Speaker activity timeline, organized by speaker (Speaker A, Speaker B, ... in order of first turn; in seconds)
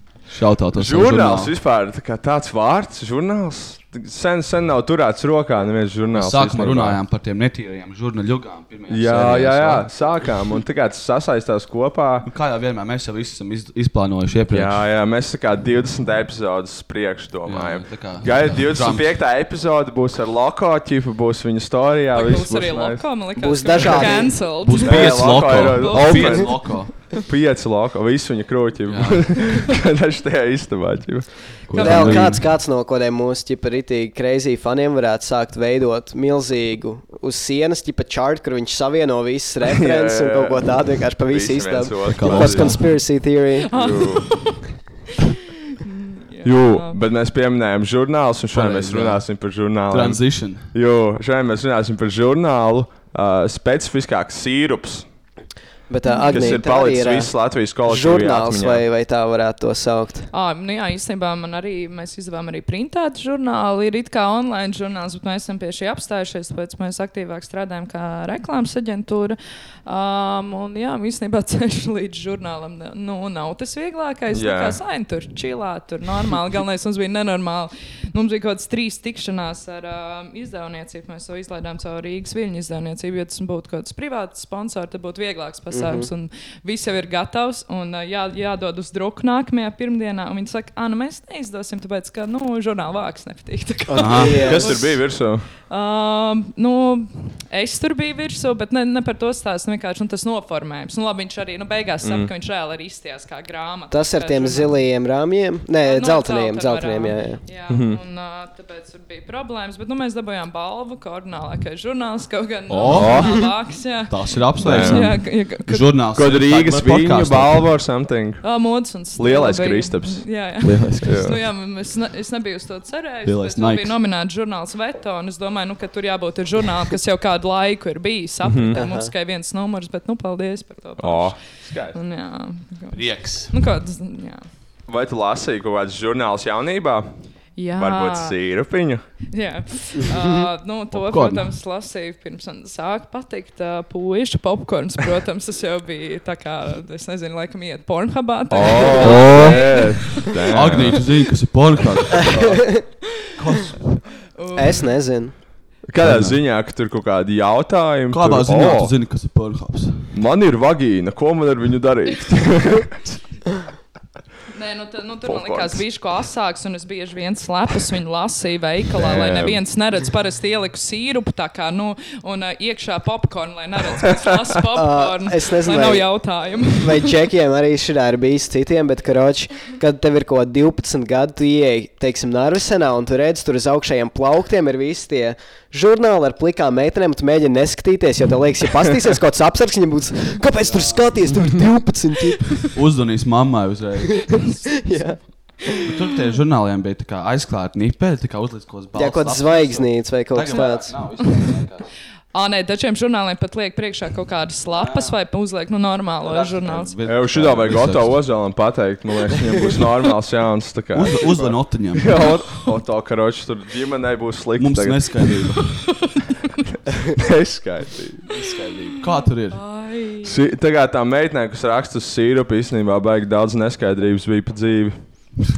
Speaker A: 0.3-1.5, 6.1-9.9, 12.2-14.8, 17.4-19.1, 23.9-27.1, 28.9-29.5, 31.7-32.4, 42.1-42.9, 48.5-49.3, 49.9-50.7, 94.0-94.5, 112.7-113.5, 114.1-117.7, 120.6-121.2, 123.2-124.0, 132.9-133.5, 140.9-141.5, 149.0-149.6, 150.5-154.0, 156.0-156.4, 158.1-160.1, 190.6-191.2, 192.6-194.4, 195.9-201.9, 204.8-205.2, 206.2-208.3, 210.9-212.1, 214.6-216.0, 218.3-219.6
Speaker B: 0.7-7.0, 8.9-12.3, 14.5-23.1, 24.8-31.3, 39.6-42.8, 43.7-44.3, 46.4-55.0, 56.2-58.8, 74.3-74.8, 94.4-95.5, 102.0-102.3, 107.7-108.0, 112.9-113.4, 114.6-115.2, 116.1-118.4, 119.2-120.2, 121.0-121.4, 128.4-128.8, 131.0-132.0, 134.9-137.1, 137.8-139.0, 148.5-151.0, 155.9-158.9, 160.1-163.2, 165.2-165.8, 168.9-169.6, 207.0-215.3, 216.9-218.2, 220.2-225.0
Speaker C: 22.1-26.8, 31.7-32.3, 43.6-44.6, 45.3-47.0, 56.0-56.3, 60.3-94.9, 95.7-104.8, 105.8-115.8, 118.4-134.4, 137.6-138.3, 139.3-150.4, 154.4-154.9, 164.5-177.1, 201.2-201.5, 202.3-206.9, 219.0-220.4
Speaker D: 23.4-24.5, 31.8-43.7, 55.9-57.3, 57.8-60.3, 85.7-86.1, 93.9-94.9, 103.9-107.4, 128.7-129.1, 152.4-152.8, 154.6-155.3, 174.7-192.7, 194.4-195.9, 198.9-201.0